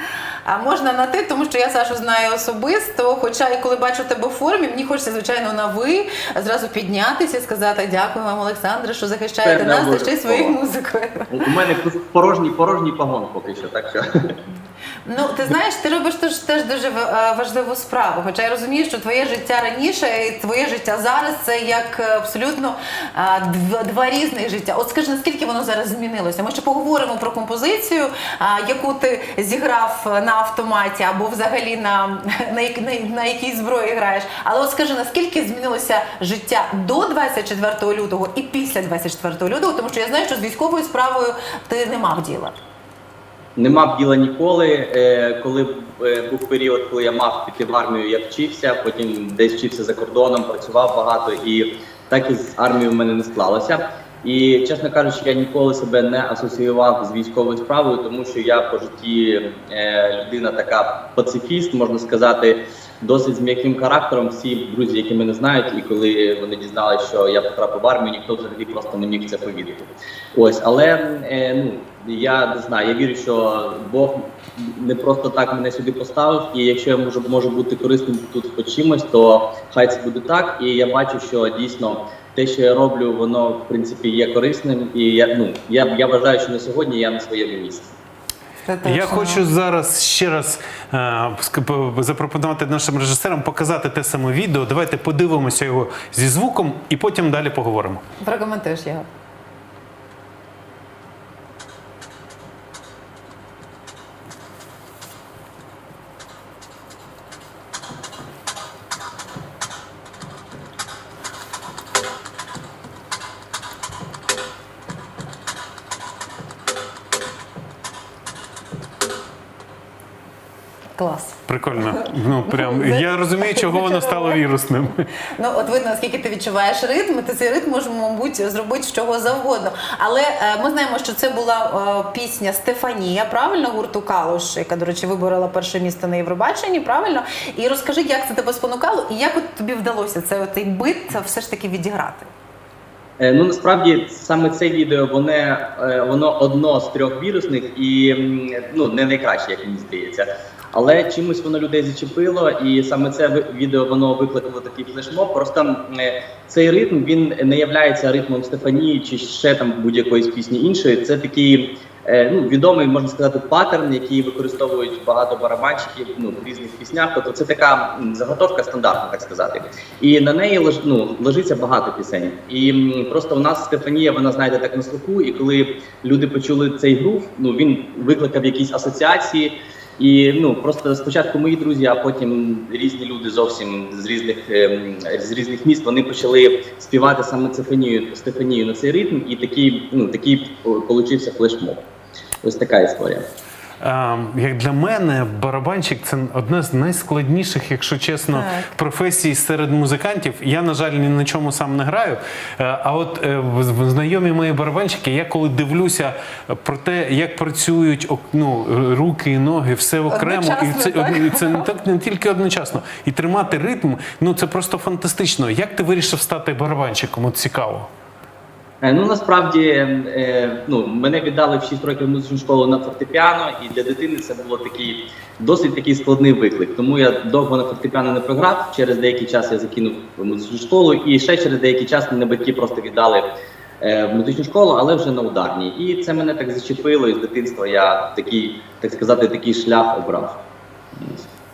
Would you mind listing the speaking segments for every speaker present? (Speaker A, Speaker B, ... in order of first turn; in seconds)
Speaker A: 0.5-11.3, 15.1-42.6, 88.6-89.5, 98.2-99.1, 121.0-124.4, 125.4-142.3, 198.3-198.7, 210.1-211.7
Speaker B: 9.4-10.6, 11.3-14.3, 43.6-87.9, 143.2-191.8, 192.4-193.2, 218.8-233.2, 233.8-240.4, 241.0-241.3
Speaker C: 88.8-98.0, 121.5-124.9, 193.8-217.9